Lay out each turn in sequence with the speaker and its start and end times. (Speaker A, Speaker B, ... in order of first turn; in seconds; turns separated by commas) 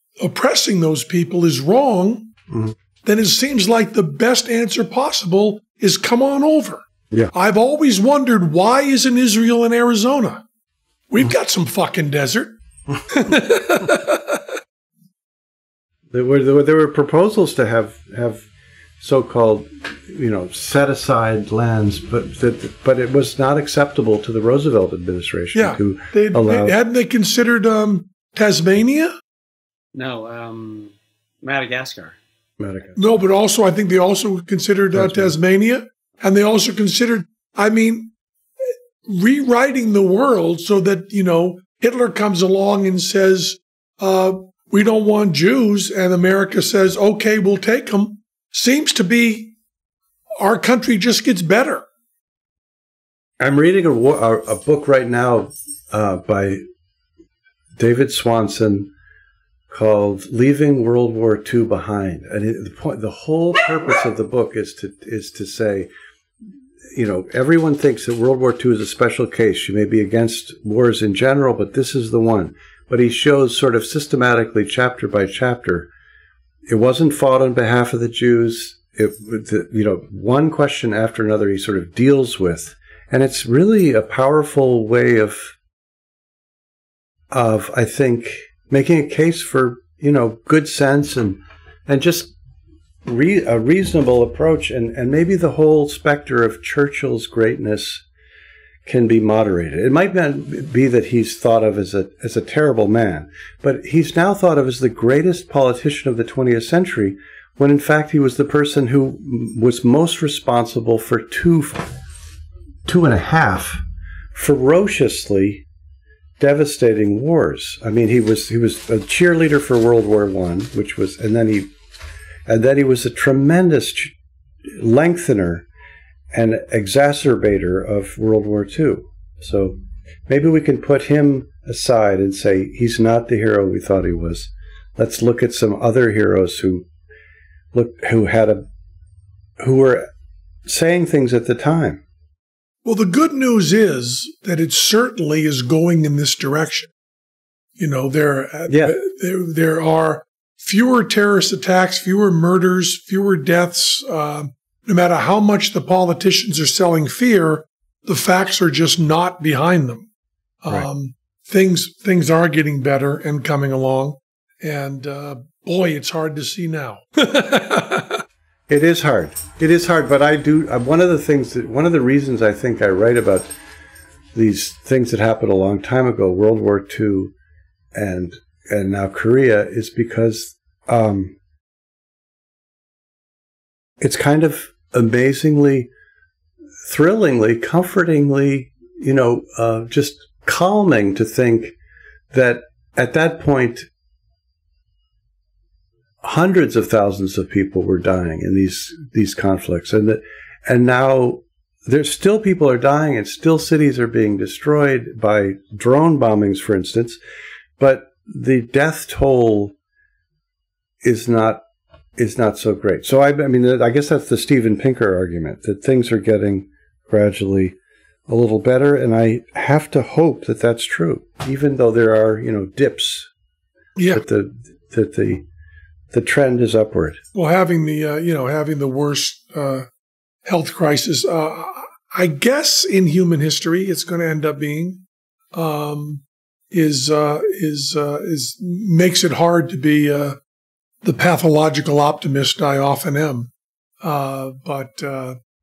Speaker A: 0.2-2.3, Speaker A: 3.0-10.4, Speaker A: 11.1-12.5, Speaker A: 13.1-14.4, Speaker B: 16.1-18.4, Speaker B: 19.0-26.7, Speaker A: 25.6-29.1, Speaker C: 29.9-32.1, Speaker B: 32.6-33.0, Speaker A: 33.0-38.1, Speaker B: 34.9-35.3, Speaker A: 39.0-49.5, Speaker A: 50.4-51.8, Speaker B: 53.4-56.6, Speaker B: 57.8-58.9, Speaker B: 59.7-65.9, Speaker B: 66.9-75.9, Speaker B: 76.7-85.5, Speaker B: 87.3-92.3, Speaker B: 93.0-98.0, Speaker B: 98.9-111.9, Speaker B: 112.9-113.8, Speaker B: 114.3-115.6, Speaker B: 116.4-121.7, Speaker B: 122.5-124.1, Speaker B: 124.7-125.7, Speaker B: 126.3-136.9, Speaker B: 137.7-138.7, Speaker B: 139.6-140.1, Speaker B: 140.7-142.0, Speaker A: 142.8-146.9, Speaker A: 147.8-160.1, Speaker B: 148.7-148.9, Speaker A: 160.6-168.2, Speaker B: 168.7-173.5, Speaker B: 174.3-177.3, Speaker B: 177.9-181.4, Speaker B: 184.0-185.9, Speaker B: 186.8-191.7, Speaker B: 192.3-193.9, Speaker B: 196.2-207.2, Speaker B: 207.8-209.7, Speaker B: 211.0-211.6, Speaker B: 212.2-217.7, Speaker B: 218.3-223.3, Speaker A: 223.9-224.2, Speaker B: 224.1-225.4, Speaker B: 226.1-227.2, Speaker A: 227.3-229.9, Speaker A: 230.4-240.4, Speaker A: 241.0-243.5, Speaker A: 244.0-245.4